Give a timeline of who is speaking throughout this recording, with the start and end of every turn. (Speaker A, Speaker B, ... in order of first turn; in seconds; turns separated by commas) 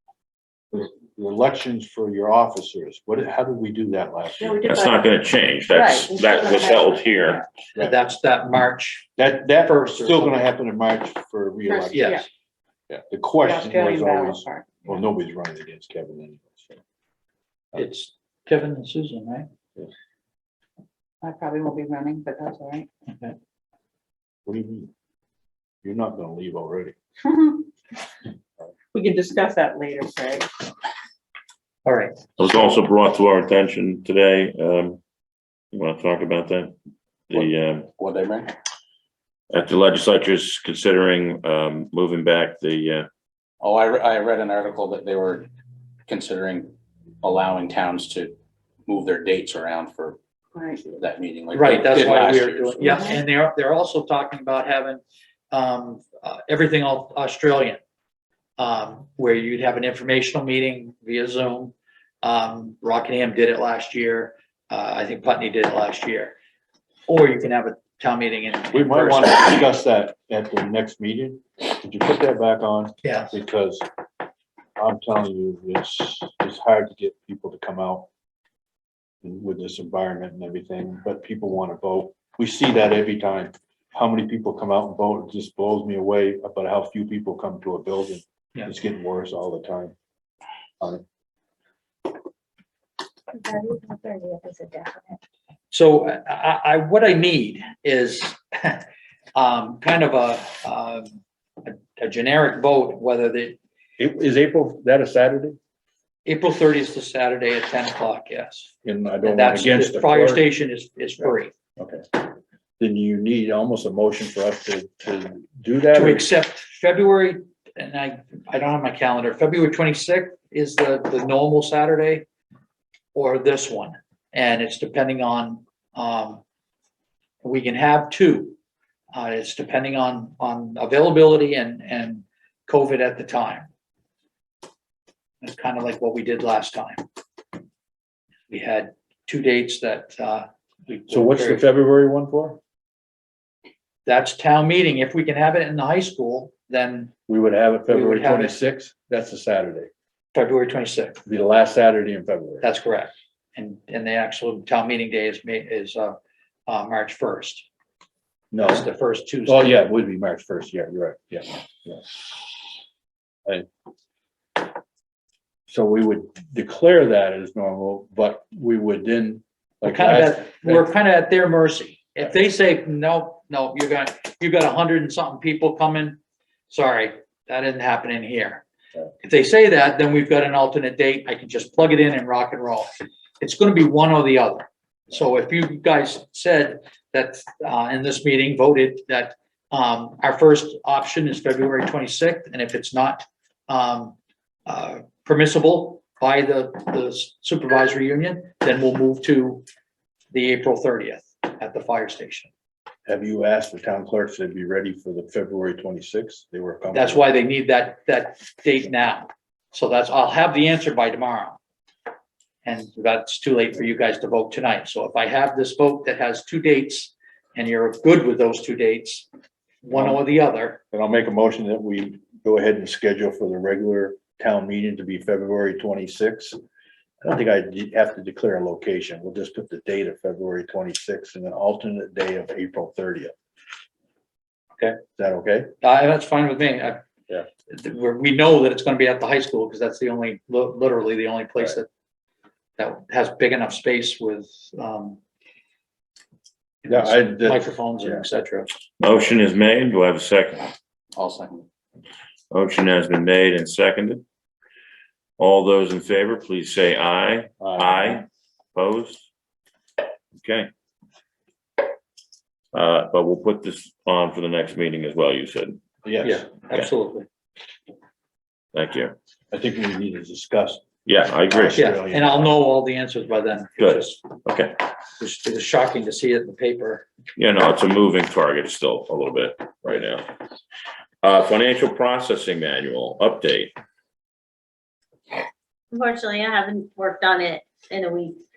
Speaker A: 0.7-4.6, Speaker B: 4.4-5.0, Speaker C: 4.6-7.4, Speaker B: 5.7-7.4, Speaker D: 7.8-9.1, Speaker A: 9.2-12.2, Speaker D: 9.6-10.4, Speaker B: 11.7-12.3, Speaker D: 11.9-12.2, Speaker A: 12.9-16.8, Speaker B: 13.4-14.8, Speaker D: 17.7-19.5, Speaker B: 21.2-22.9, Speaker D: 23.1-23.3, Speaker A: 24.4-24.9, Speaker A: 25.8-26.9, Speaker B: 28.9-30.5, Speaker D: 31.8-32.1, Speaker C: 32.4-35.0, Speaker C: 35.7-36.7, Speaker C: 37.3-37.9, Speaker E: 37.4-38.5, Speaker C: 39.5-43.1, Speaker E: 43.6-45.5, Speaker E: 46.1-50.2, Speaker B: 50.5-50.9, Speaker E: 50.8-53.0, Speaker D: 51.5-57.8, Speaker B: 52.9-53.2, Speaker D: 58.6-66.3, Speaker D: 67.1-69.6, Speaker A: 68.7-73.8, Speaker D: 73.0-73.3, Speaker A: 74.8-78.1, Speaker A: 79.2-90.0, Speaker F: 93.5-95.2, Speaker D: 95.7-103.6, Speaker A: 104.0-105.6, Speaker D: 106.2-108.7, Speaker A: 108.8-110.5, Speaker D: 109.2-111.5, Speaker A: 111.2-116.3, Speaker D: 115.9-122.2, Speaker D: 123.1-126.4, Speaker D: 127.4-128.6, Speaker D: 129.1-133.7, Speaker D: 135.4-137.0, Speaker D: 138.5-141.6, Speaker A: 141.1-142.6, Speaker D: 144.1-147.1, Speaker A: 147.3-149.9, Speaker D: 147.9-148.6, Speaker D: 150.3-151.2, Speaker A: 151.2-152.7, Speaker D: 152.6-157.7, Speaker A: 158.5-158.9, Speaker D: 158.6-159.8, Speaker A: 159.5-162.4, Speaker A: 165.7-170.9, Speaker D: 169.8-176.2, Speaker D: 176.7-178.6, Speaker D: 179.2-182.9, Speaker D: 183.4-194.2, Speaker D: 194.7-199.6, Speaker D: 200.3-202.5, Speaker A: 203.1-207.2, Speaker D: 206.9-211.6, Speaker D: 212.7-219.3, Speaker D: 219.8-220.8, Speaker A: 219.9-220.2, Speaker A: 220.9-226.6, Speaker A: 227.2-233.3, Speaker A: 235.2-235.7, Speaker D: 235.8-237.0, Speaker D: 237.7-241.9, Speaker D: 242.8-245.2, Speaker D: 246.8-248.7, Speaker A: 246.9-248.2, Speaker C: 249.0-250.7, Speaker E: 251.1-251.7, Speaker C: 252.5-254.2, Speaker C: 255.4-259.3, Speaker A: 257.6-258.2, Speaker C: 260.4-260.7, Speaker C: 262.7-265.8, Speaker A: 266.0-266.5, Speaker D: 266.2-267.2, Speaker C: 268.7-269.1, Speaker A: 269.5-270.9, Speaker C: 271.1-271.8, Speaker A: 271.5-272.5, Speaker D: 271.7-274.2, Speaker C: 273.8-274.8, Speaker D: 275.2-277.1, Speaker C: 277.4-280.3, Speaker C: 281.2-283.7, Speaker F: 285.9-288.4